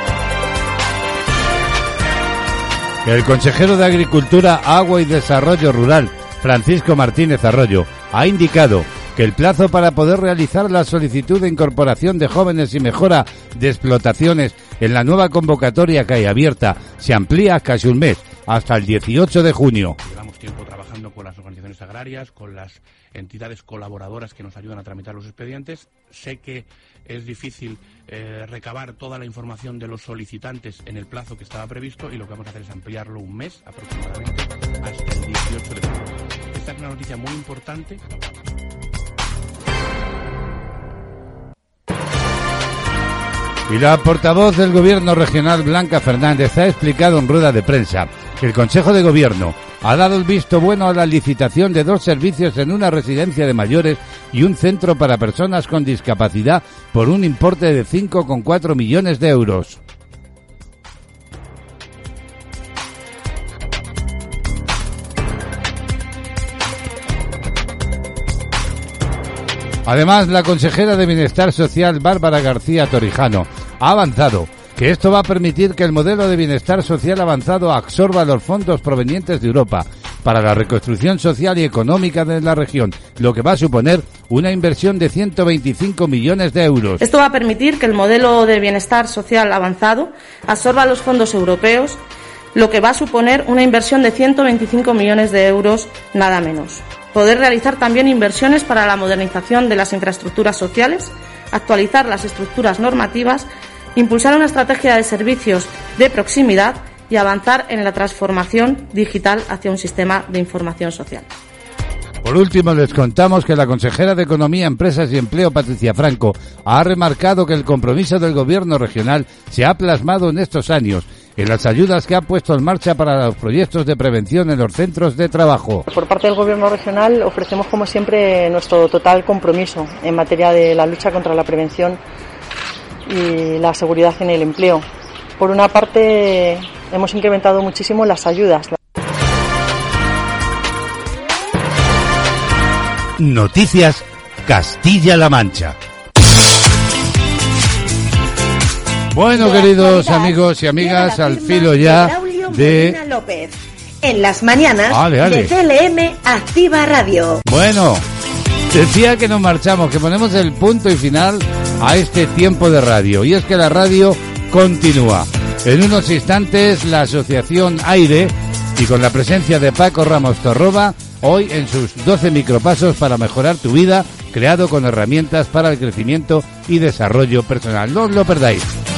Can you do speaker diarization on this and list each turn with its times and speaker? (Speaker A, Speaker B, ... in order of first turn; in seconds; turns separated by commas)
Speaker A: 3.0-20.0, Speaker B: 20.0-38.2, Speaker A: 43.7-59.8, Speaker A: 69.8-87.0, Speaker C: 87.0-92.0, Speaker C: 92.5-111.3, Speaker A: 112.2-125.8, Speaker D: 125.9-132.0, Speaker D: 133.1-134.8, Speaker D: 135.4-138.7, Speaker A: 143.2-145.8, Speaker A: 149.1-153.0, Speaker E: 149.3-157.4, Speaker A: 154.9-155.5, Speaker A: 157.4-158.0, Speaker A: 158.7-178.7